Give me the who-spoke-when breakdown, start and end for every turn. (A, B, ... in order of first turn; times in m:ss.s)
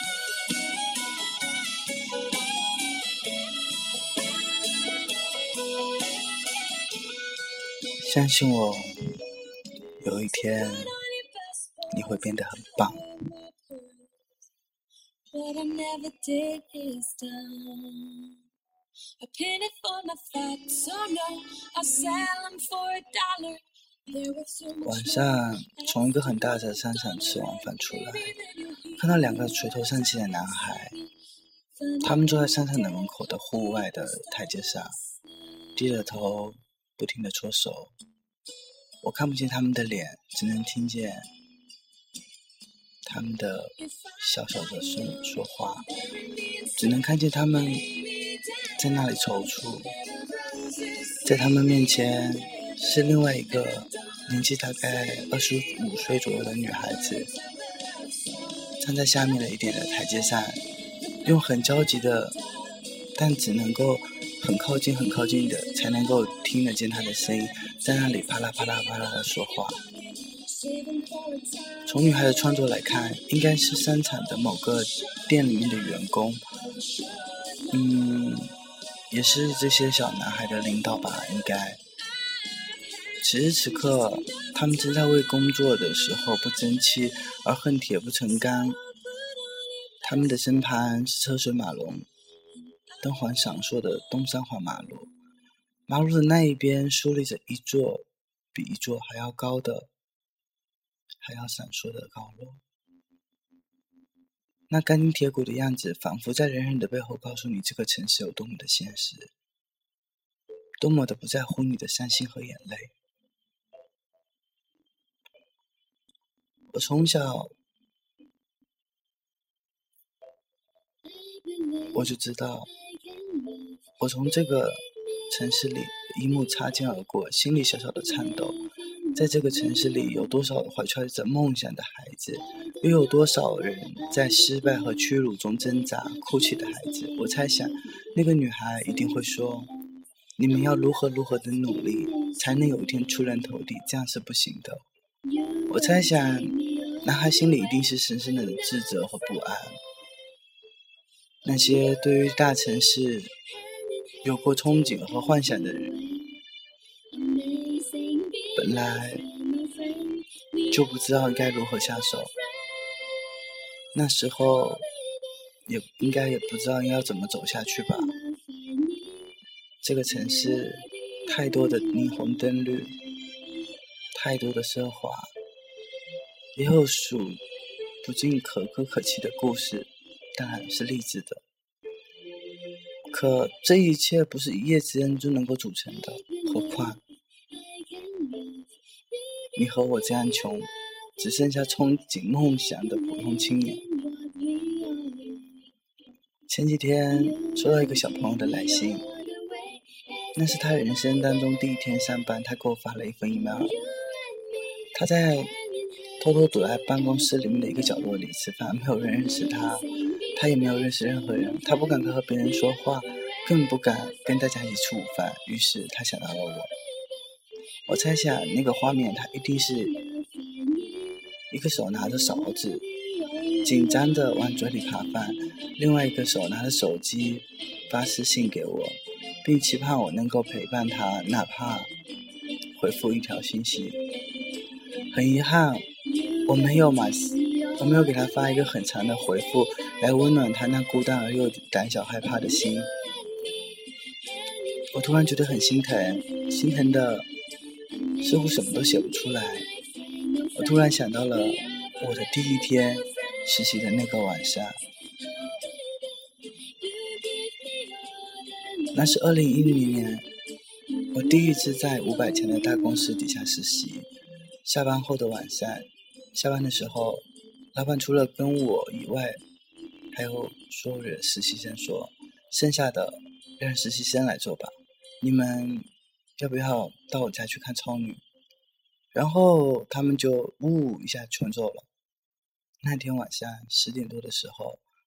0:04.6-0:06.8 A
0:08.0-0:09.0 B
0:10.0-0:10.9 B
0:10.3-0:14.1 A
0:11.9-0:13.0 B
0:15.3-0:18.3 A
0:19.2-0:31.1 A
0:24.8-0:28.3 B
0:29.0-0:31.0 B
0:31.8-0:35.8 A
0:32.0-0:35.0 B
0:35.8-0:37.9 B
0:39.0-0:41.3 B
0:43.0-0:45.9 B
0:43.9-0:54.3 A
0:46.8-0:47.9 B
0:48.8-0:49.9 B
0:51.2-0:57.3 B
0:57.2-0:58.7 A
0:58.8-1:00.6 B
1:01.2-1:02.4 B
1:03.2-1:09.8 B
1:05.4-1:06.1 A
1:07.6-1:15.8 A
1:11.8-1:16.4 B
1:16.7-1:18.0 A
1:17.7-1:18.5 B
1:19.1-1:21.8 B
1:22.2-1:25.3 A
1:23.2-1:28.8 B
1:28.3-1:30.7 A
1:30.0-1:32.1 B
1:32.9-1:33.7 A
1:33.0-1:35.1 B
1:35.9-1:39.9 B
1:41.2-1:42.6 B
1:44.7-1:49.3 B
1:50.8-1:52.9 B
1:56.7-1:57.5 B
2:01.1-2:02.1 A
2:01.9-2:02.7 B
2:02.7-2:03.8 A
2:04.0-2:08.6 B
2:08.0-2:10.4 A
2:09.2-2:19.7 B
2:12.3-2:18.0 A
2:18.9-2:19.6 A
2:20.4-2:24.8 B
2:20.5-2:23.0 A
2:25.2-2:29.7 A
2:25.7-2:29.8 B
2:31.4-2:33.3 B
2:31.5-2:32.4 A
2:33.5-2:36.4 A
2:34.2-2:35.9 B
2:37.1-2:43.5 A
2:38.6-2:39.2 B
2:40.7-2:42.3 B
2:43.9-2:44.8 B
2:44.6-2:45.2 A
2:45.7-2:48.1 B
2:47.6-2:49.3 A
2:49.8-2:53.0 B
2:50.4-2:52.2 A
2:54.1-2:55.3 B
2:56.6-2:57.4 B
2:58.0-3:01.4 B
3:03.1-3:07.0 B
3:05.9-3:07.0 A
3:07.5-3:11.6 A
3:09.6-3:13.8 B
3:12.4-3:15.6 A
3:16.5-3:19.0 B
3:17.1-3:21.1 A
3:20.4-3:23.7 B
3:23.6-3:28.2 A
3:24.9-3:25.5 B
3:26.2-3:36.7 B
3:29.0-3:34.4 A
3:36.9-3:37.3 A
3:37.9-3:39.9 B
3:37.9-3:38.6 A
3:39.5-3:41.4 A
3:41.5-3:42.8 B
3:42.0-3:44.5 A
3:43.6-3:51.9 B
3:52.8-3:54.0 B
3:55.1-3:55.9 B
3:56.0-3:59.0 A
3:56.4-4:02.9 B
4:02.3-4:07.2 A
4:04.9-4:07.3 B
4:08.0-4:13.5 A
4:08.2-4:09.6 B
4:10.6-4:14.8 B
4:15.1-4:19.2 A
4:18.9-4:20.3 B
4:21.1-4:24.1 B
4:22.3-4:22.9 A
4:24.6-4:29.4 B
4:30.1-4:38.2 B
4:39.1-4:41.8 B
4:42.8-4:44.8 B